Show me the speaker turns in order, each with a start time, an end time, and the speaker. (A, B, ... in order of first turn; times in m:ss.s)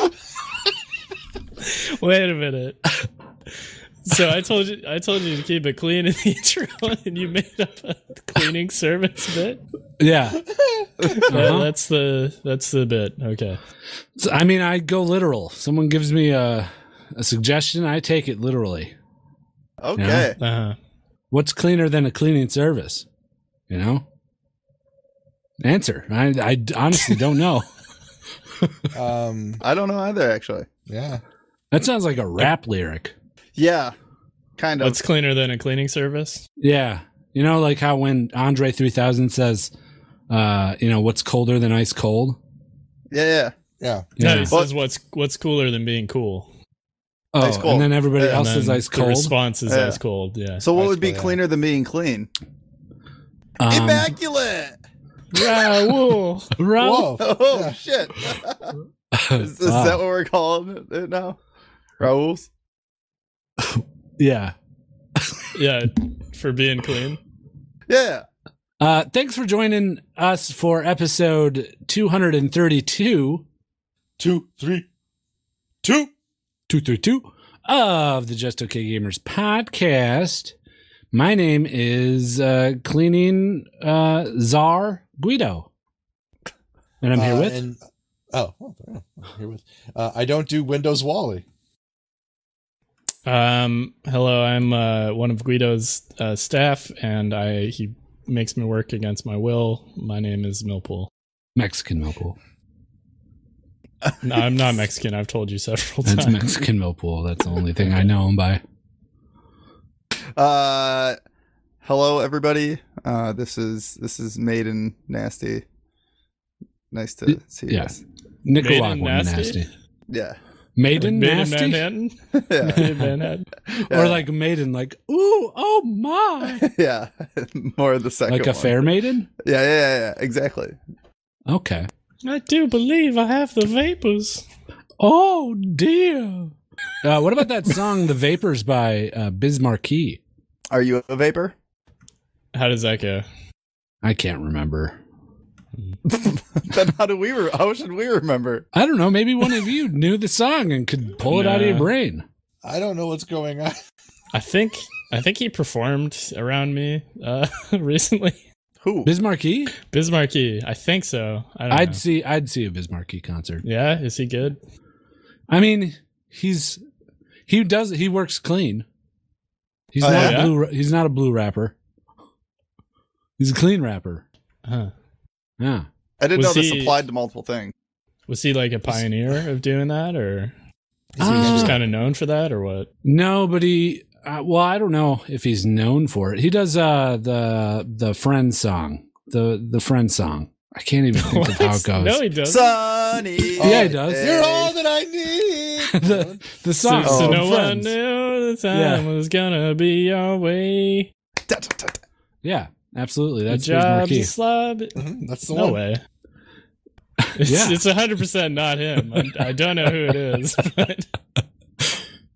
0:01.6-0:02.8 A
0:04.0-0:09.6 A
0:10.0-0:10.4 B
0:10.5-0:10.9 C
0:11.3-0:11.7 B
0:11.3-0:13.6 A
0:14.2-0:18.9 B
0:19.8-0:20.4 D
0:20.0-0:20.3 B
0:20.4-0:20.8 A
0:21.3-0:23.0 B
0:23.7-0:24.0 B
0:25.6-0:27.7 B
0:28.9-0:29.6 C
0:29.6-0:30.7 D
0:30.9-0:31.2 C
0:31.7-0:33.1 B
0:33.6-0:34.0 D
0:34.6-0:35.0 D
0:34.8-0:36.4 A
0:36.6-0:39.7 B
0:40.3-0:42.4 B
0:43.1-0:43.5 D
0:43.8-0:44.1 C
0:44.2-0:44.5 B
0:44.2-0:46.5 A
0:47.3-0:49.3 B
0:47.4-0:48.4 D
0:48.2-0:50.6 A
0:49.7-0:50.0 D
0:50.6-0:52.3 D
0:50.8-0:51.4 C
0:53.6-0:54.1 B
0:53.7-0:54.8 D
0:55.3-0:56.5 A
0:56.6-0:57.2 B
0:56.8-0:57.8 C
0:57.2-0:58.7 D
0:59.1-1:00.0 B
0:59.4-1:01.4 D
1:02.0-1:02.5 D
1:03.6-1:04.5 B
1:05.2-1:05.4 B
1:05.5-1:07.2 A
1:07.9-1:08.2 D
1:08.8-1:13.4 B
1:14.2-1:14.9 C
1:15.8-1:16.1 C
1:16.7-1:20.5 B
1:21.1-1:25.7 B
1:27.0-1:27.6 B
1:27.1-1:27.8 C
1:28.3-1:31.4 C
1:33.3-1:41.1 A
1:41.6-1:42.4 B
1:44.2-1:46.6 A
1:46.0-1:48.6 B
1:50.4-1:51.2 D
1:51.8-1:55.6 D
1:56.9-1:58.0 D
1:57.3-1:57.9 B
1:58.4-1:59.7 B
1:58.6-1:59.6 A
2:00.1-2:00.4 D
2:00.8-2:01.9 B
2:01.0-2:03.5 A
2:02.5-2:02.8 D
2:02.8-2:03.1 B
2:03.7-2:06.6 B
2:03.9-2:04.2 D
2:06.6-2:08.9 D
2:08.3-2:09.3 B
2:09.4-2:10.8 D
2:11.5-2:11.9 B
2:12.2-2:14.4 A
2:15.0-2:20.2 B
2:20.7-2:21.5 D
2:22.5-2:23.2 A
2:24.0-2:25.0 B
2:26.1-2:28.7 D
2:28.7-2:32.2 B
2:31.2-2:31.9 A
2:32.6-2:33.8 C
2:34.3-2:38.4 A
2:38.8-2:39.1 D
2:39.0-2:39.7 B
2:39.9-2:42.0 A
2:41.7-2:43.6 B
2:43.6-2:44.6 A
2:45.5-2:46.8 B
2:47.5-2:48.8 B
2:49.9-2:51.7 B
2:50.0-2:50.3 D
2:50.0-2:50.4 C
2:50.1-2:50.6 A
2:53.4-2:54.2 B
2:54.6-2:54.9 A
2:55.6-2:55.9 B
2:56.2-2:57.7 D
2:56.4-2:57.0 A
2:58.3-3:00.5 A
3:01.2-3:01.8 C
3:01.2-3:01.8 B
3:01.2-3:02.9 A
3:03.0-3:12.2 B
3:11.2-3:12.8 A
3:12.4-3:14.7 D
3:13.6-3:16.4 C
3:13.6-3:14.3 B
3:15.9-3:17.9 B
3:16.8-3:21.1 A
3:17.0-3:17.4 D
3:18.7-3:19.1 B
3:21.5-3:22.0 D
3:22.4-3:24.3 B
3:23.5-3:26.0 A
3:25.0-3:25.8 C
3:27.2-3:27.8 B
3:27.4-3:31.1 A